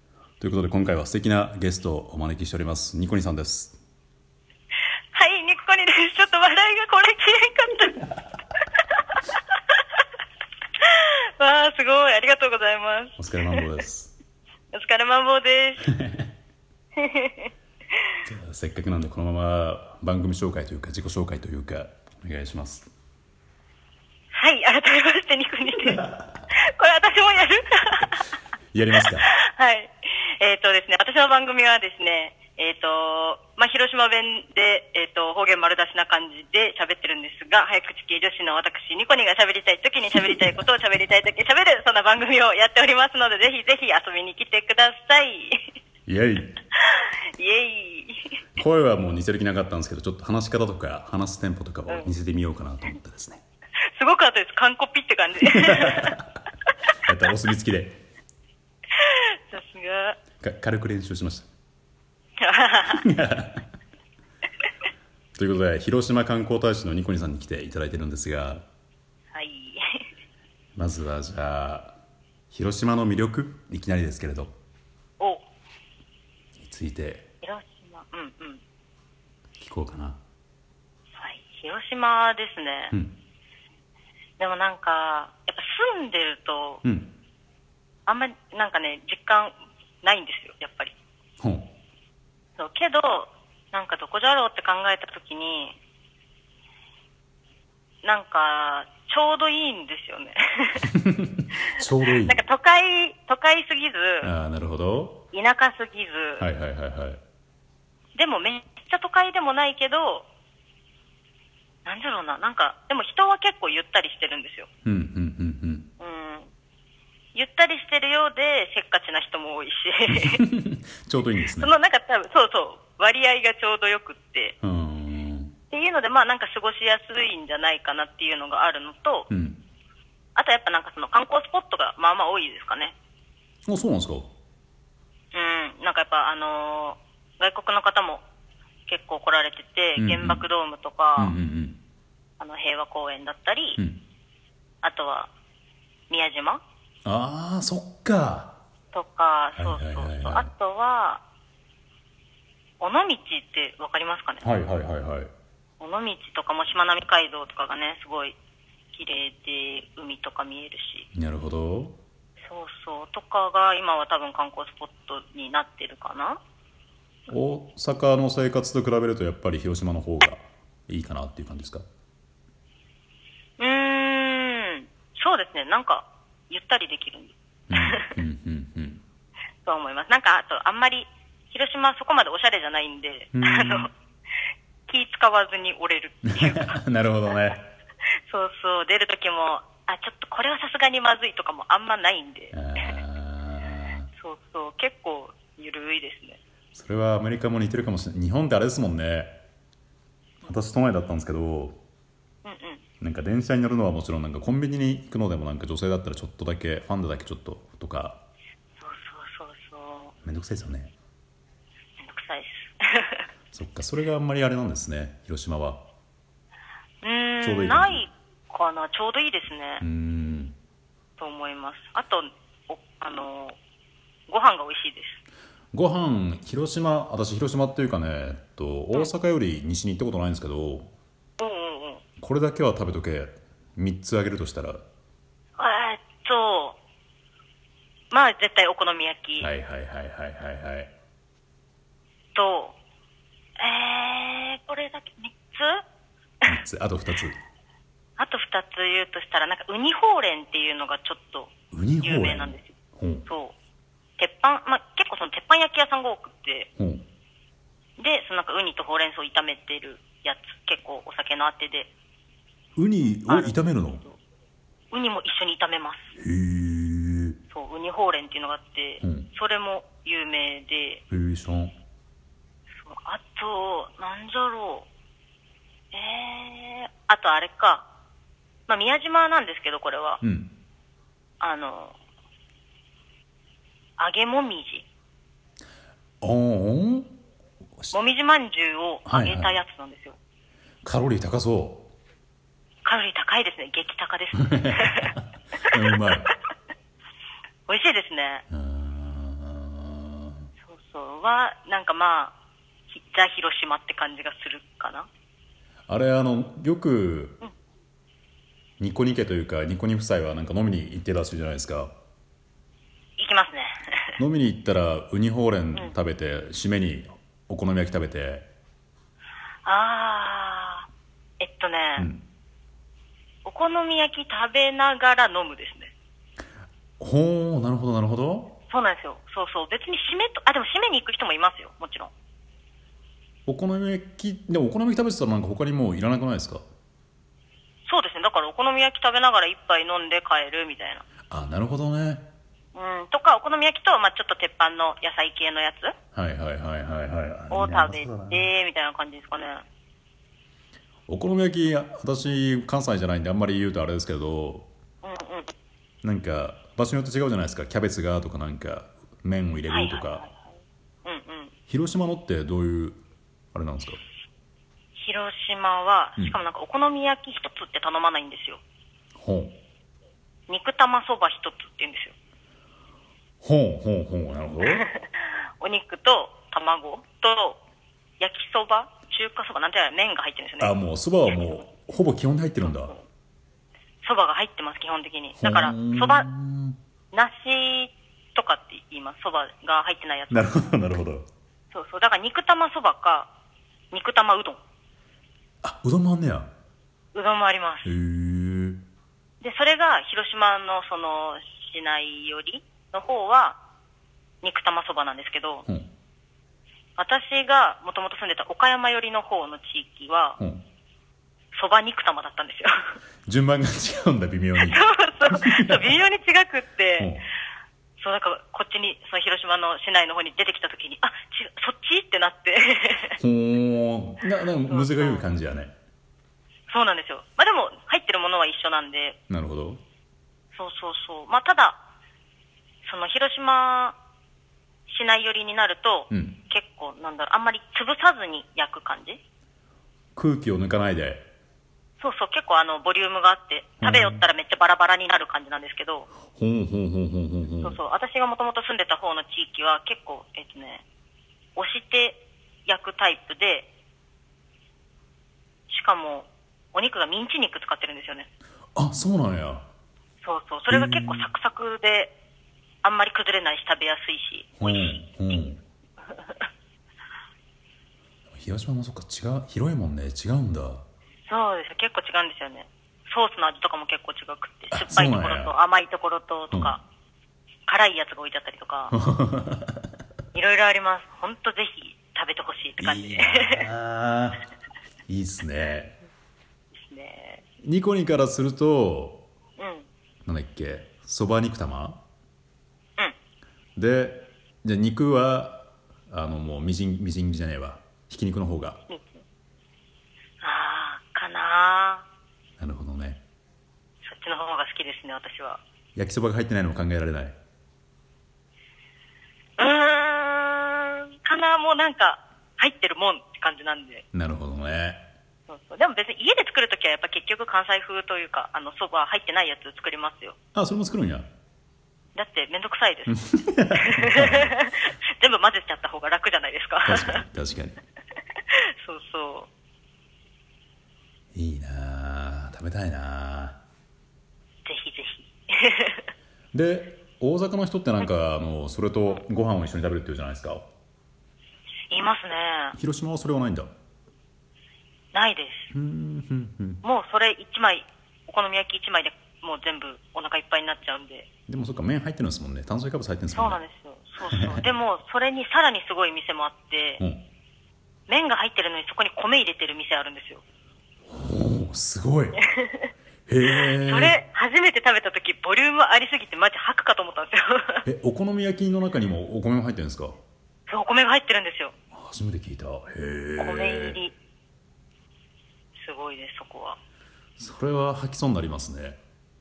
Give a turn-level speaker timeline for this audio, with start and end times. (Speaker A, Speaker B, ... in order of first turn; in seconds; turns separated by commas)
Speaker A: 0.4-3.8, Speaker B: 5.1-8.1, Speaker B: 10.8-13.7, Speaker A: 13.2-14.1, Speaker B: 14.7-15.9, Speaker A: 15.9-16.3, Speaker B: 16.9-18.1, Speaker A: 18.2-22.9, Speaker B: 24.3-28.2, Speaker A: 28.7-29.3, Speaker B: 28.9-45.7, Speaker A: 46.1-46.6, Speaker B: 46.7-48.4, Speaker A: 48.5-53.4, Speaker B: 53.9-56.2, Speaker A: 55.6-56.1, Speaker A: 57.0-58.0, Speaker B: 58.9-60.2, Speaker A: 60.4-61.5, Speaker B: 62.4-63.1, Speaker A: 62.9-63.7, Speaker A: 65.3-68.6, Speaker B: 69.3-70.0, Speaker A: 70.8-72.0, Speaker A: 72.5-74.5, Speaker B: 75.2-75.5, Speaker A: 76.6-77.2, Speaker B: 77.4-78.6, Speaker A: 79.6-80.2, Speaker B: 81.2-82.9, Speaker B: 84.4-86.8, Speaker A: 86.8-87.1, Speaker B: 88.0-90.9, Speaker A: 91.4-91.7, Speaker B: 92.6-95.8, Speaker B: 98.0-100.9, Speaker A: 101.0-102.4, Speaker B: 102.1-104.3, Speaker A: 104.2-105.2, Speaker B: 105.3-106.4, Speaker A: 106.4-107.2, Speaker B: 108.1-110.2, Speaker B: 111.8-114.7, Speaker A: 114.8-115.9, Speaker B: 116.0-116.5, Speaker B: 117.3-120.4, Speaker A: 120.1-121.8, Speaker B: 121.6-124.6, Speaker A: 124.6-125.5, Speaker B: 125.7-129.3, Speaker A: 129.3-129.6, Speaker B: 130.3-132.9, Speaker A: 133.7-134.3, Speaker B: 135.3-138.2, Speaker B: 138.9-141.3, Speaker A: 140.0-140.4, Speaker A: 141.2-141.8, Speaker B: 142.4-143.8, Speaker A: 143.8-144.0, Speaker B: 144.8-145.3, Speaker B: 146.1-146.6, Speaker A: 147.0-148.6, Speaker B: 148.9-151.2, Speaker A: 149.6-150.5, Speaker B: 152.8-154.4, Speaker A: 154.4-155.3, Speaker B: 155.8-158.3, Speaker B: 158.9-161.1, Speaker A: 161.2-162.0, Speaker B: 162.4-166.4, Speaker A: 167.3-171.8, Speaker B: 173.6-178.2, Speaker A: 177.7-179.0, Speaker B: 179.7-183.9, Speaker A: 183.3-183.9, Speaker B: 184.9-186.8, Speaker A: 186.2-187.7, Speaker B: 188.2-192.7, Speaker A: 192.5-194.1, Speaker B: 194.2-196.4, Speaker A: 196.7-199.4, Speaker A: 200.4-201.8, Speaker B: 202.4-202.8, Speaker A: 203.0-208.2, Speaker B: 208.8-210.1, Speaker A: 210.2-210.9, Speaker B: 212.0-213.2, Speaker A: 213.5-215.8, Speaker B: 217.0-219.8, Speaker A: 217.4-218.1, Speaker A: 219.8-220.6, Speaker B: 221.2-223.6, Speaker B: 224.3-225.2, Speaker A: 225.7-230.9, Speaker B: 231.4-232.0, Speaker A: 232.2-234.8, Speaker B: 235.6-236.8, Speaker B: 238.1-239.5, Speaker A: 239.4-240.9, Speaker B: 242.3-242.8, Speaker B: 243.6-245.8, Speaker A: 246.4-247.4, Speaker B: 248.2-252.7, Speaker A: 251.7-253.3, Speaker B: 253.3-253.6, Speaker B: 254.2-256.7, Speaker A: 256.8-257.1, Speaker B: 258.0-261.9, Speaker A: 262.8-264.0, Speaker B: 263.3-264.2, Speaker B: 264.9-266.1, Speaker A: 266.1-267.4, Speaker B: 267.5-271.0, Speaker A: 269.0-269.3, Speaker A: 271.1-271.8, Speaker B: 272.7-274.9, Speaker B: 275.9-277.9, Speaker B: 278.7-280.2, Speaker A: 280.2-280.5, Speaker B: 281.4-281.9, Speaker B: 284.0-284.9, Speaker A: 286.2-287.1, Speaker B: 287.9-290.2, Speaker A: 289.1-289.6, Speaker A: 290.8-291.9, Speaker B: 292.8-295.1, Speaker A: 295.0-296.3, Speaker B: 297.7-298.4, Speaker A: 298.5-300.5, Speaker B: 300.6-302.3, Speaker B: 302.9-305.1, Speaker A: 305.9-307.4, Speaker A: 308.8-311.9, Speaker B: 313.2-314.2, Speaker A: 314.2-318.5, Speaker B: 319.6-320.9, Speaker B: 321.4-322.1, Speaker A: 322.0-322.2, Speaker B: 323.4-325.9, Speaker A: 327.0-328.6, Speaker B: 328.7-332.1, Speaker A: 333.5-336.6, Speaker B: 337.9-341.1, Speaker A: 341.3-342.3, Speaker B: 342.7-345.9, Speaker A: 346.1-348.5, Speaker B: 347.5-349.6, Speaker A: 351.1-354.7, Speaker B: 355.0-355.5, Speaker A: 356.0-360.2, Speaker B: 359.7-361.5, Speaker A: 361.7-363.0, Speaker A: 363.5-364.0, Speaker B: 364.9-368.6, Speaker A: 369.1-369.6, Speaker B: 370.5-372.1, Speaker A: 373.4-374.8, Speaker B: 374.6-377.6, Speaker B: 378.2-380.8, Speaker A: 380.6-382.9, Speaker B: 382.6-383.1, Speaker B: 384.0-386.3, Speaker A: 385.4-386.8, Speaker B: 387.1-390.5, Speaker A: 390.3-391.2, Speaker B: 391.7-393.3, Speaker B: 393.9-394.6, Speaker A: 395.6-396.5, Speaker B: 397.1-397.9, Speaker A: 397.8-398.8, Speaker B: 399.4-403.6, Speaker B: 404.4-405.6, Speaker B: 407.0-410.4, Speaker B: 411.5-413.0, Speaker A: 413.3-415.8, Speaker B: 414.6-417.1, Speaker A: 417.0-417.3, Speaker B: 418.0-423.2, Speaker A: 423.2-425.7, Speaker B: 424.7-425.2, Speaker B: 426.7-429.2, Speaker A: 429.3-429.8, Speaker B: 430.5-431.8, Speaker B: 432.8-434.0, Speaker B: 434.9-439.2, Speaker A: 436.1-436.4, Speaker A: 440.1-441.3, Speaker B: 442.0-446.1, Speaker A: 443.8-444.2, Speaker A: 446.3-447.8, Speaker B: 447.6-450.8, Speaker B: 451.6-453.7, Speaker B: 455.7-458.3, Speaker A: 458.8-459.6, Speaker B: 460.2-462.1, Speaker A: 460.7-461.3, Speaker B: 462.8-464.9, Speaker A: 464.6-465.6, Speaker B: 466.1-466.4, Speaker A: 468.3-470.8, Speaker B: 471.3-476.8, Speaker A: 474.7-475.5, Speaker B: 477.7-478.9, Speaker A: 478.9-479.8, Speaker B: 480.3-483.7, Speaker A: 482.8-484.4, Speaker A: 485.1-485.9, Speaker B: 486.8-487.4, Speaker A: 487.6-489.2, Speaker B: 489.6-489.9, Speaker A: 490.2-492.0, Speaker A: 493.8-498.8, Speaker B: 498.9-499.2, Speaker B: 500.4-502.1, Speaker A: 502.6-503.2, Speaker B: 504.0-505.6, Speaker A: 505.9-507.4, Speaker B: 509.6-514.0, Speaker A: 514.1-515.0, Speaker B: 515.5-520.4, Speaker A: 520.5-521.3, Speaker B: 522.1-523.2, Speaker A: 523.1-524.5, Speaker B: 523.8-527.2, Speaker A: 526.8-527.8, Speaker B: 528.5-529.5, Speaker A: 531.3-533.6, Speaker B: 534.6-536.1, Speaker A: 536.5-540.7, Speaker B: 541.9-542.8, Speaker A: 542.7-543.7, Speaker B: 545.1-545.7, Speaker A: 545.7-546.8, Speaker B: 546.8-551.3, Speaker A: 551.5-553.6, Speaker B: 553.3-557.0, Speaker B: 558.1-560.4, Speaker A: 561.1-562.4, Speaker B: 562.4-562.9, Speaker A: 563.3-564.2, Speaker B: 563.4-567.9, Speaker A: 567.9-570.2, Speaker B: 570.7-571.7, Speaker A: 571.9-574.0, Speaker B: 573.4-574.1, Speaker B: 575.8-576.8, Speaker A: 577.4-579.0